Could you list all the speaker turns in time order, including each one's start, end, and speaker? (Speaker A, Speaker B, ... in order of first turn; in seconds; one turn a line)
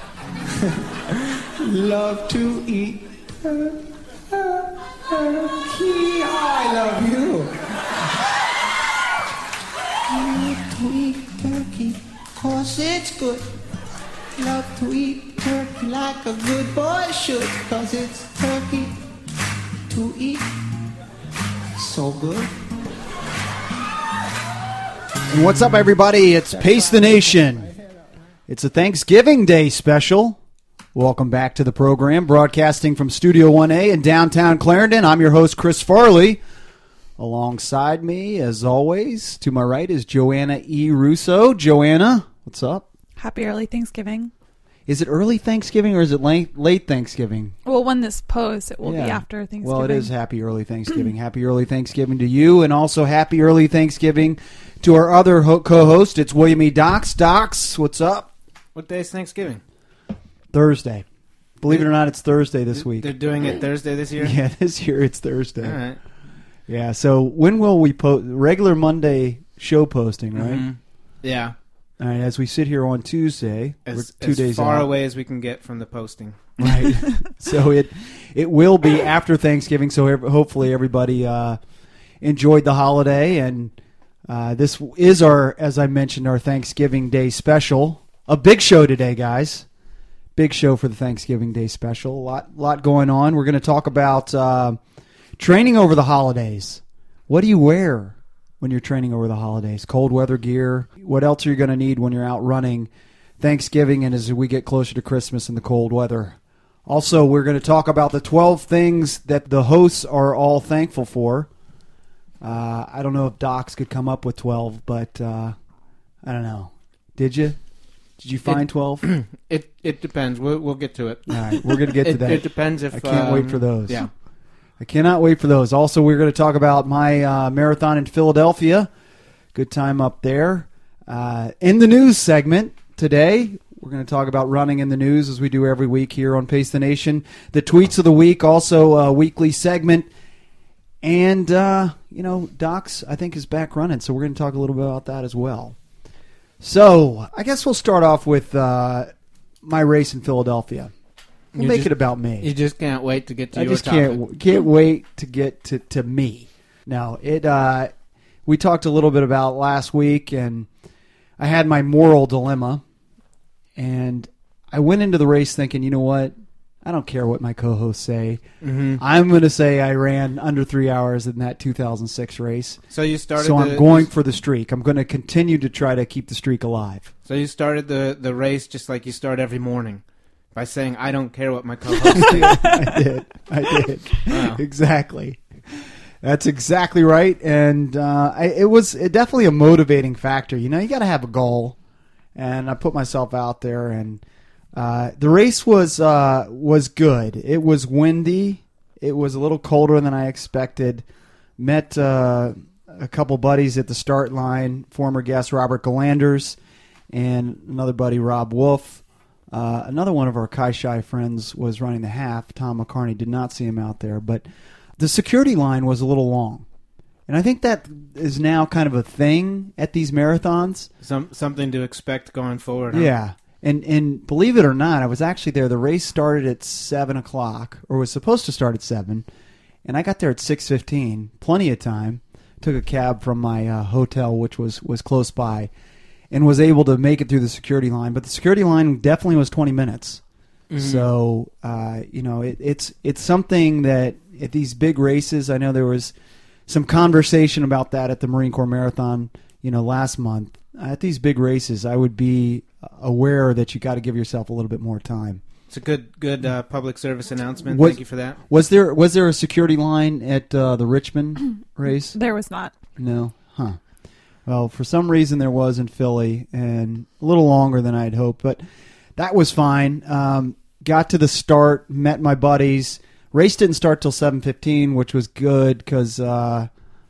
Speaker A: 1.6-7.6
Speaker A: 10.1-13.5
Speaker A: 14.4-19.0
Speaker A: 19.9-20.6
Speaker A: 21.8-22.5
Speaker B: 25.3-27.7
Speaker B: 28.5-30.4
Speaker B: 30.9-36.4
Speaker B: 37.2-42.8
Speaker C: 43.2-44.3
Speaker B: 44.9-47.5
Speaker C: 47.6-50.1
Speaker B: 48.8-58.3
Speaker D: 58.7-59.6
Speaker B: 60.5-61.0
Speaker B: 61.6-63.1
Speaker D: 62.7-64.3
Speaker B: 64.2-65.8
Speaker D: 65.6-66.0
Speaker B: 66.7-70.7
Speaker D: 70.3-71.5
Speaker B: 72.0-74.9
Speaker D: 73.9-76.5
Speaker B: 76.6-81.6
Speaker B: 82.2-83.7
Speaker B: 84.3-89.7
Speaker B: 90.3-94.8
Speaker B: 95.4-111.5
Speaker B: 112.4-115.5
Speaker B: 116.2-117.6
Speaker B: 118.2-119.0
Speaker D: 118.5-124.1
Speaker B: 121.3-124.0
Speaker B: 124.8-128.9
Speaker B: 129.5-140.1
Speaker B: 141.0-145.8
Speaker B: 146.6-149.1
Speaker B: 149.6-150.9
Speaker D: 151.5-154.2
Speaker B: 151.6-152.5
Speaker B: 153.5-157.9
Speaker B: 158.4-160.7
Speaker B: 161.4-162.8
Speaker B: 163.8-168.4
Speaker D: 168.6-169.0
Speaker B: 169.0-172.8
Speaker D: 172.9-174.1
Speaker B: 173.3-177.1
Speaker D: 177.2-180.0
Speaker D: 180.5-182.7
Speaker B: 182.0-191.8
Speaker C: 182.3-182.9
Speaker D: 184.2-184.6
Speaker B: 192.3-194.2
Speaker B: 194.7-201.0
Speaker B: 201.6-206.6
Speaker B: 207.1-214.4
Speaker B: 215.0-216.6
Speaker B: 217.3-220.9
Speaker D: 221.0-223.1
Speaker B: 222.9-229.2
Speaker B: 229.8-235.7
Speaker B: 236.3-240.2
Speaker D: 240.7-241.1
Speaker B: 240.8-246.1
Speaker B: 246.7-255.4
Speaker D: 255.7-258.4
Speaker B: 257.7-262.1
Speaker C: 262.1-262.7
Speaker B: 263.0-263.8
Speaker B: 264.4-268.6
Speaker B: 269.1-276.7